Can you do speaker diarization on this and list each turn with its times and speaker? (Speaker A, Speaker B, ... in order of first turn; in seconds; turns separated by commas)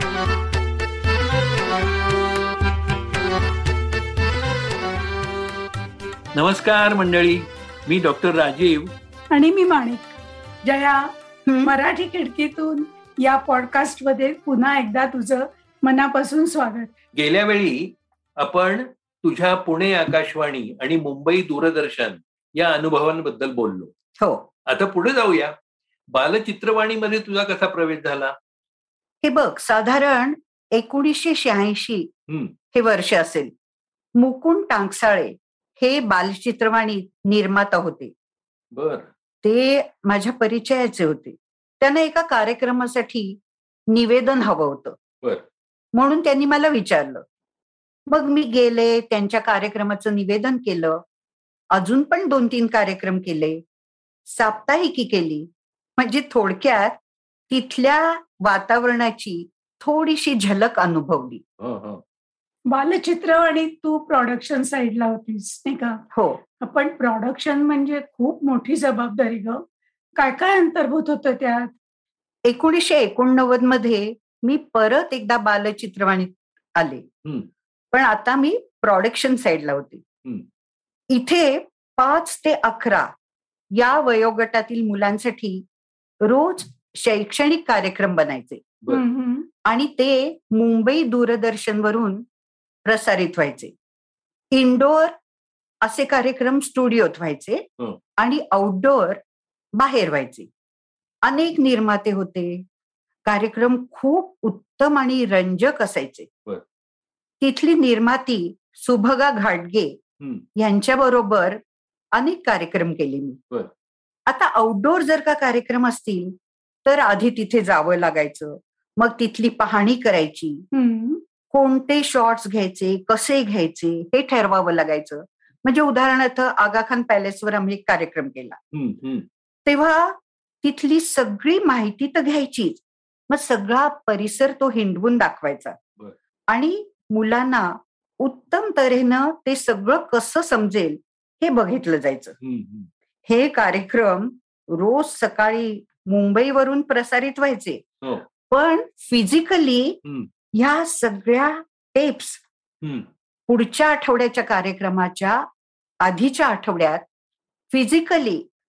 Speaker A: 6.3-8.9, Speaker B: 9.3-11.1, Speaker C: 11.5-11.7, Speaker B: 11.6-16.9, Speaker A: 17.1-23.9, Speaker C: 24.2-24.5, Speaker A: 24.7-25.5, Speaker A: 26.1-28.3, Speaker C: 29.2-32.1, Speaker C: 32.7-33.5, Speaker C: 34.2-38.1, Speaker A: 38.7-39.1, Speaker C: 39.4-43.4, Speaker C: 43.9-45.0, Speaker C: 46.0-47.2, Speaker C: 48.1-51.0, Speaker C: 51.7-53.6, Speaker C: 54.3-57.0, Speaker C: 57.5-61.4, Speaker A: 61.6-62.0, Speaker B: 62.7-66.0, Speaker C: 66.2-66.4, Speaker B: 66.6-69.6, Speaker B: 70.2-71.7, Speaker C: 72.5-77.0, Speaker C: 77.9-80.0, Speaker C: 81.1-83.1, Speaker C: 83.8-85.6, Speaker C: 86.2-88.6, Speaker B: 88.9-89.5, Speaker C: 89.7-92.3, Speaker C: 92.9-93.7, Speaker C: 94.5-95.1, Speaker C: 95.8-97.6, Speaker C: 98.2-99.2, Speaker C: 99.8-100.5, Speaker C: 101.2-102.6, Speaker C: 103.3-106.3, Speaker C: 107.4-110.0, Speaker C: 110.6-111.6, Speaker C: 112.2-113.4, Speaker C: 114.3-120.7, Speaker B: 120.7-121.2, Speaker C: 121.5-128.6, Speaker A: 128.7-129.2, Speaker C: 129.7-135.8, Speaker C: 136.5-142.4, Speaker A: 142.4-142.9, Speaker C: 143.3-147.8, Speaker C: 148.5-150.0, Speaker C: 150.6-152.4, Speaker A: 152.8-153.1, Speaker C: 153.5-155.4, Speaker C: 156.0-157.0, Speaker C: 157.7-158.4